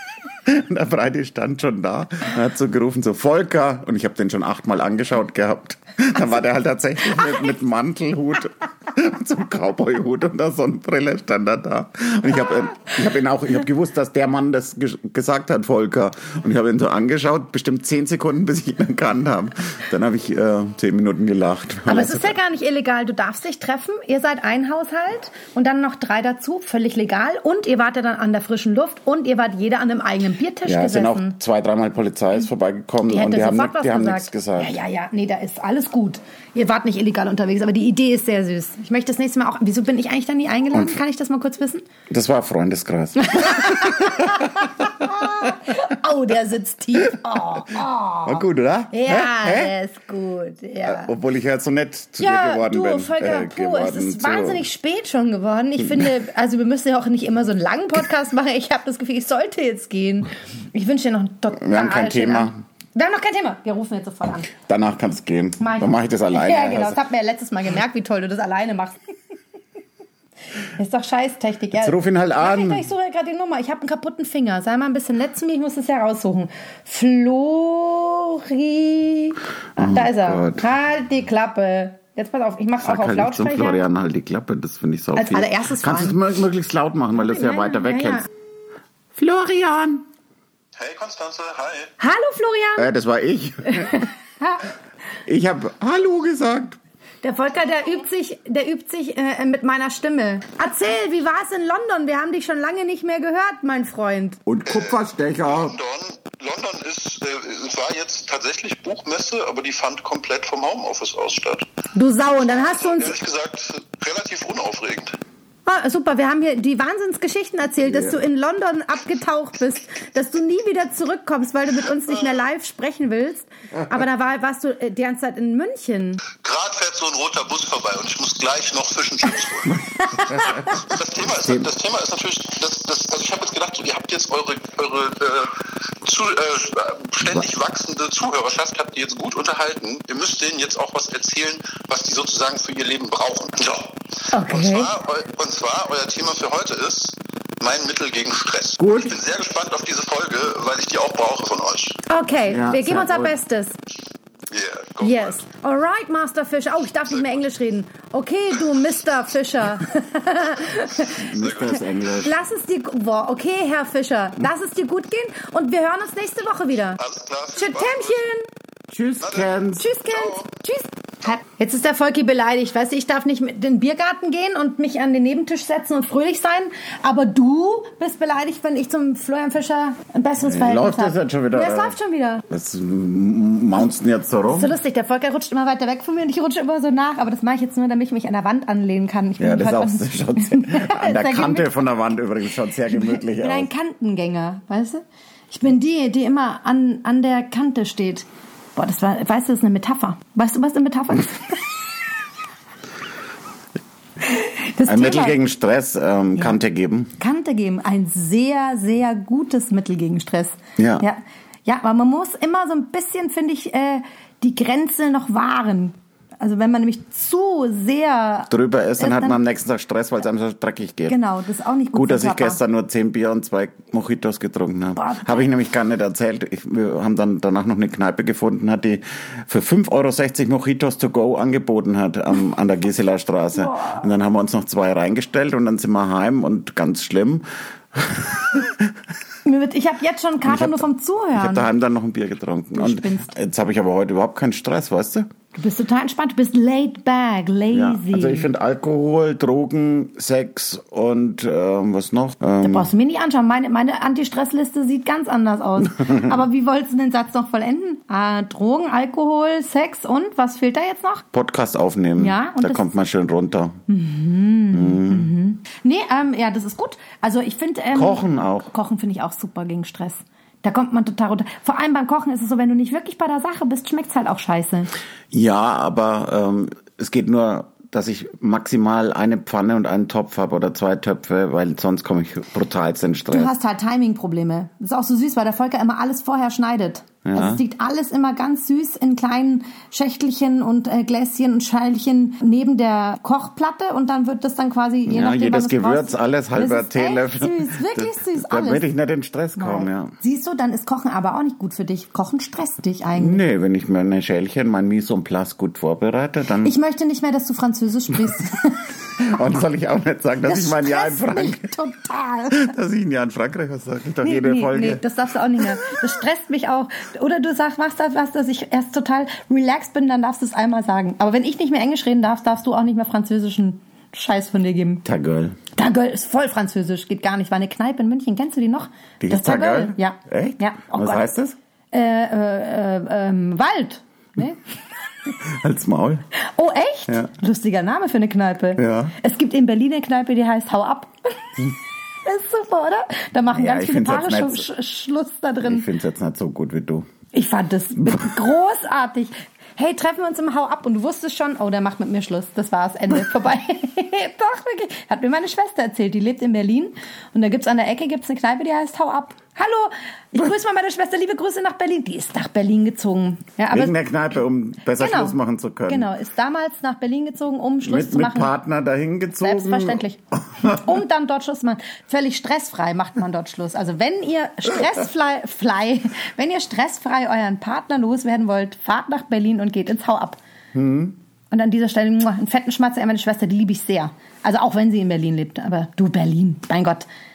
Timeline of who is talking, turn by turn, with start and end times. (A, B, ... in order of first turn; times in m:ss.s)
0:00.4-0:22.3 A
0:21.8-0:31.4 B
0:30.6-0:34.8 A
0:33.0-0:41.8 B
0:40.7-0:41.0 A
0:42.1-0:45.5 A
0:43.2-0:51.1 B
0:48.2-0:49.7 A
0:50.8-0:54.6 A
0:52.2-1:04.5 B
1:01.6-1:02.6 A
1:04.6-1:07.0 A
1:05.6-1:09.1 B
1:10.8-1:23.8 B
1:11.7-1:12.8 A
1:19.8-1:20.6 A
1:22.8-1:28.3 A
1:25.2-1:26.2 B
1:27.1-1:28.3 B
1:29.1-1:30.0 A
1:30.8-1:31.9 C
1:32.0-1:32.9 B
1:32.8-1:34.1 A
1:33.7-1:34.6 B
1:35.2-1:36.8 A
1:37.2-1:44.4 B
1:44.4-1:45.8 A
1:44.7-1:51.7 C
1:51.9-1:53.2 B
1:52.6-1:55.2 C
1:55.6-2:06.2 B
1:57.9-1:58.1 A
2:06.3-2:09.8 C
2:09.8-2:10.7 A
2:10.5-2:32.0 C
2:11.4-2:11.7 A
2:24.3-2:24.9 B
2:28.8-2:29.2 A
2:32.0-2:33.8 B
2:32.5-2:33.3 A
2:34.5-2:35.3 C
2:35.0-2:41.3 B
2:41.1-2:42.4 A
2:41.4-2:41.7 C
2:42.2-2:47.0 B
2:47.0-2:48.2 C
2:47.5-2:48.5 B
2:48.9-2:49.9 A
2:49.2-2:49.5 C
2:49.8-3:02.4 B
2:50.1-2:50.4 C
3:00.4-3:02.0 A
3:02.5-3:04.7 A
3:04.5-3:11.8 B
3:09.4-3:13.7 A
3:12.9-3:21.6 B
3:24.3-3:25.4 B
3:24.9-3:27.1 A
3:27.2-3:39.4 B
3:30.8-3:31.0 A
3:38.5-3:41.2 A
3:41.1-3:42.6 B
3:41.9-3:58.9 A
3:45.0-3:45.5 B
3:53.6-3:54.0 B
3:59.4-4:01.7 B
4:00.4-4:00.8 A
4:01.3-4:05.3 A
4:02.7-4:03.3 B
4:05.5-4:08.5 B
4:07.7-4:12.9 A
4:12.6-4:21.2 B
4:21.3-4:23.8 A
4:22.2-4:22.8 B
4:23.9-4:34.9 B
4:24.7-4:25.3 A
4:27.9-4:28.7 A
4:35.3-4:43.5 A
4:43.3-4:58.8 B
4:47.2-4:47.6 A
4:55.1-5:00.1 A
4:59.6-5:03.4 B
5:03.2-5:06.7 A
5:06.6-5:08.9 B
5:09.2-5:11.7 A
5:10.4-5:12.7 B
5:12.5-5:15.0 A
5:14.2-5:25.0 B
5:25.0-5:25.6 A
5:25.8-5:31.3 B
5:29.2-5:31.6 A
5:31.9-5:34.6 B
5:35.4-5:36.2 A
5:36.4-5:41.7 B
5:38.8-5:39.1 A
5:42.2-5:45.9 B
5:43.5-5:44.7 A
5:45.6-5:47.1 A
5:47.3-6:03.9 B
6:03.7-6:06.1 A
6:05.0-6:05.4 B
6:05.9-6:08.5 B
6:07.8-6:10.0 A
6:09.4-6:20.4 B
6:20.7-6:21.2 A
6:21.5-6:27.0 B